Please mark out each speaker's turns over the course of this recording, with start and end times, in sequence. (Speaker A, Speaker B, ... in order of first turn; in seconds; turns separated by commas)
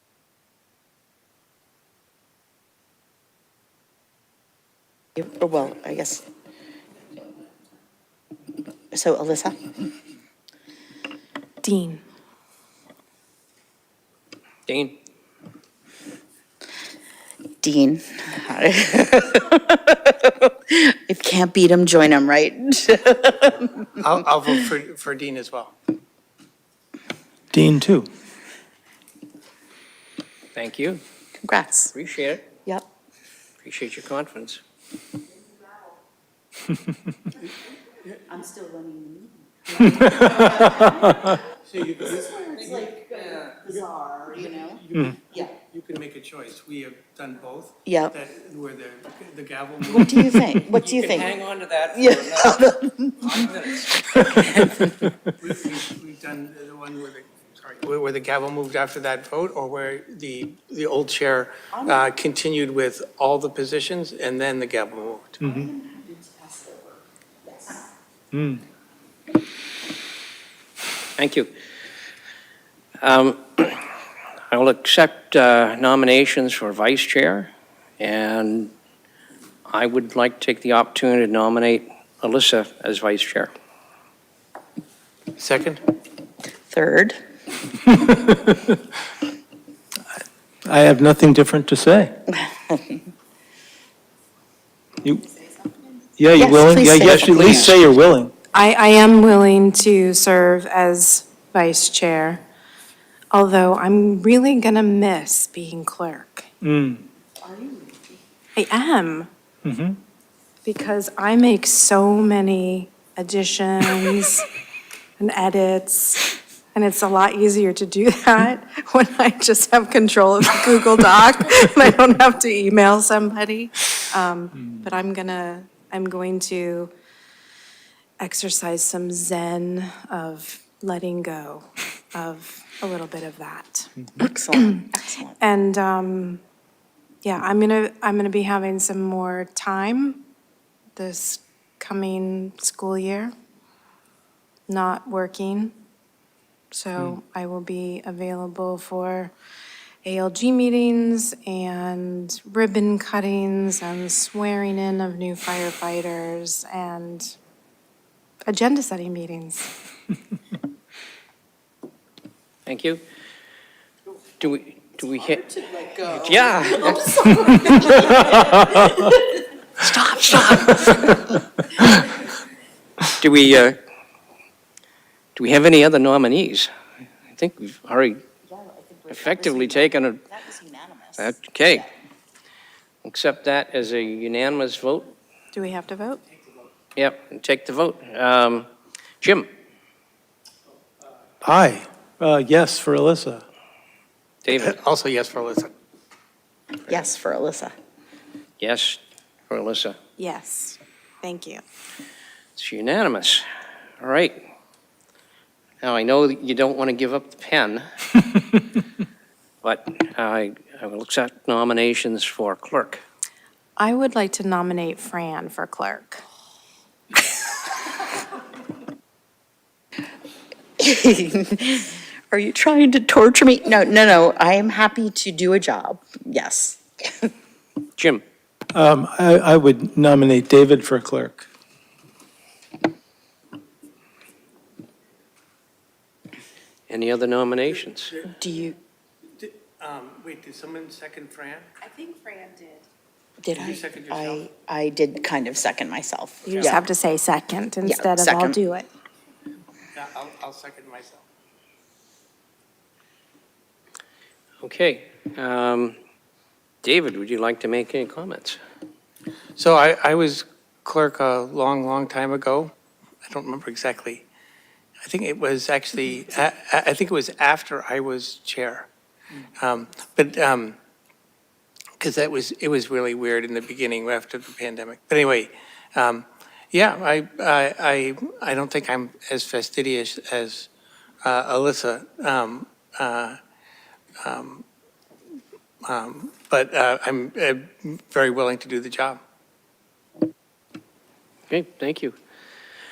Speaker A: 5.2-6.2, Speaker A: 8.9-9.7, Speaker B: 11.6-12.0, Speaker C: 14.7-14.9, Speaker A: 17.6-23.9, Speaker D: 24.0-25.8, Speaker E: 27.5-28.1, Speaker C: 30.5-31.0, Speaker A: 31.4-31.9, Speaker C: 31.9-32.4, Speaker C: 33.6-34.6, Speaker A: 38.3-41.4, Speaker D: 41.7-42.4, Speaker A: 42.0-44.8, Speaker D: 44.9-50.5, Speaker A: 47.9-48.1, Speaker A: 49.9-51.4, Speaker C: 50.8-52.6, Speaker A: 51.9-53.6, Speaker C: 53.3-53.9, Speaker A: 54.2-54.8, Speaker D: 55.4-65.5, Speaker A: 61.7-62.0, Speaker E: 65.4-65.7, Speaker A: 65.5-66.9, Speaker A: 67.5-67.8, Speaker E: 68.3-68.6, Speaker C: 71.2-71.5, Speaker C: 73.0-73.8, Speaker C: 74.5-78.7, Speaker C: 79.7-83.5, Speaker D: 85.4-85.8, Speaker A: 86.7-87.2, Speaker E: 87.9-88.7, Speaker E: 90.6-92.1, Speaker E: 96.2-98.3, Speaker A: 96.3-97.8, Speaker C: 97.2-97.6, Speaker B: 98.5-102.4, Speaker B: 103.3-106.5, Speaker E: 106.6-107.0, Speaker A: 107.4-108.2, Speaker B: 108.5-109.3, Speaker E: 109.6-110.0, Speaker B: 110.6-114.5, Speaker B: 115.2-126.9, Speaker B: 128.2-134.8, Speaker A: 134.2-135.3, Speaker B: 135.4-136.4, Speaker B: 137.2-140.2, Speaker B: 140.9-143.3, Speaker B: 144.7-145.7, Speaker B: 146.7-149.3, Speaker B: 150.0-157.3, Speaker B: 158.5-159.7, Speaker C: 162.6-163.0, Speaker C: 164.4-167.9, Speaker A: 165.4-166.1, Speaker A: 166.9-169.0, Speaker B: 169.8-170.7, Speaker C: 173.1-173.8, Speaker C: 175.3-176.7, Speaker C: 177.3-178.2, Speaker A: 178.5-181.9, Speaker C: 179.1-180.2, Speaker C: 181.2-181.8, Speaker C: 183.0-185.1, Speaker B: 185.5-186.2, Speaker C: 186.9-188.7, Speaker C: 189.2-189.5, Speaker E: 191.4-193.4, Speaker C: 194.4-194.8, Speaker D: 194.5-195.7, Speaker A: 196.9-197.7, Speaker C: 198.6-199.0, Speaker C: 199.5-200.0, Speaker B: 200.2-201.6, Speaker C: 202.6-203.4, Speaker C: 204.0-204.4, Speaker C: 205.8-207.8, Speaker C: 209.6-213.0, Speaker B: 213.8-216.2, Speaker A: 220.8-227.3, Speaker C: 228.0-228.2, Speaker E: 228.7-231.5, Speaker C: 236.9-238.2, Speaker A: 238.3-238.8, Speaker D: 239.4-241.7, Speaker B: 241.8-242.8, Speaker A: 243.4-246.8, Speaker D: 243.5-244.4, Speaker B: 246.4-248.9, Speaker A: 247.8-248.6, Speaker D: 249.9-251.2, Speaker C: 254.6-255.9, Speaker C: 256.8-258.6, Speaker D: 259.6-262.7, Speaker D: 263.2-264.3, Speaker D: 265.1-268.9, Speaker D: 269.6-270.8, Speaker D: 272.0-280.7, Speaker D: 281.2-283.4, Speaker D: 284.2-284.6, Speaker D: 285.8-289.2, Speaker C: 291.5-292.1